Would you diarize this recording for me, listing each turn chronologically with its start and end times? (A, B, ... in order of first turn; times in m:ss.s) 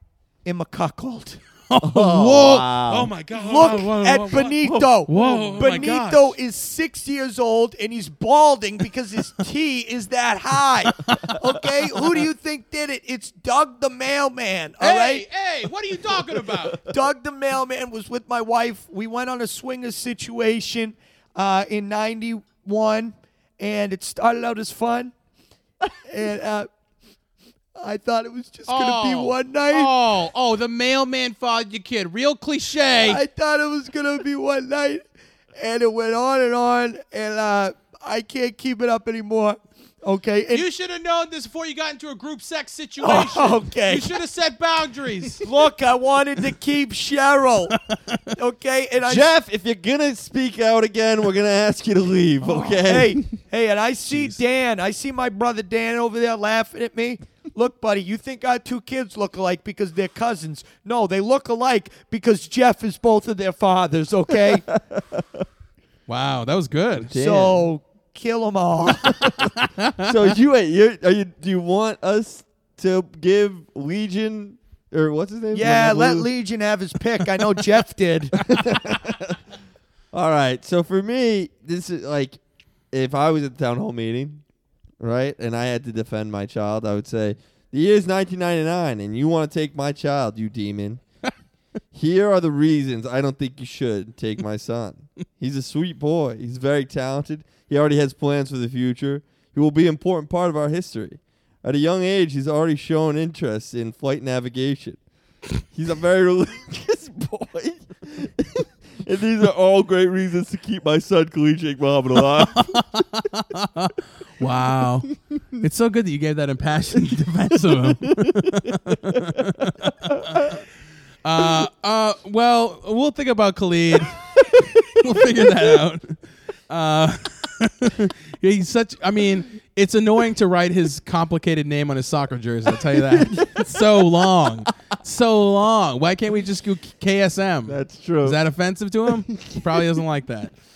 0:00.4-0:01.4 A
0:01.7-0:06.3 B
0:01.8-0:03.1 C
0:03.3-0:15.2 A
0:05.1-0:05.8 C
0:10.9-0:11.4 B
0:14.8-0:16.8 B
0:16.8-0:25.1 A
0:26.1-0:26.7 A
0:27.8-0:29.9 A
0:28.7-0:33.2 B
0:33.0-0:35.0 A
0:35.6-0:40.6 A
0:40.5-0:45.5 B
0:43.0-0:44.2 A
0:45.4-0:47.7 A
0:47.7-0:48.2 B
0:48.3-0:49.3 A
0:49.0-0:53.2 C
0:52.4-1:04.7 A
0:54.1-0:54.4 B
1:04.7-1:05.4 C
1:06.1-1:07.1 B
1:07.1-1:07.6 C
1:07.1-1:09.4 A
1:09.6-1:10.0 B
1:10.0-1:16.3 C
1:15.5-1:18.3 A
1:18.4-1:19.4 C
1:20.1-1:22.4 C
1:22.9-1:24.4 C
1:25.0-1:31.0 C
1:31.9-1:45.0 C
1:45.7-1:52.7 C
1:52.4-2:00.6 B
1:58.1-1:59.3 C
2:00.1-2:00.5 C
2:01.2-2:06.2 B
2:05.4-2:05.7 C
2:06.7-2:20.5 B
2:13.1-2:14.1 C
2:17.7-2:18.4 C
2:19.3-2:20.0 C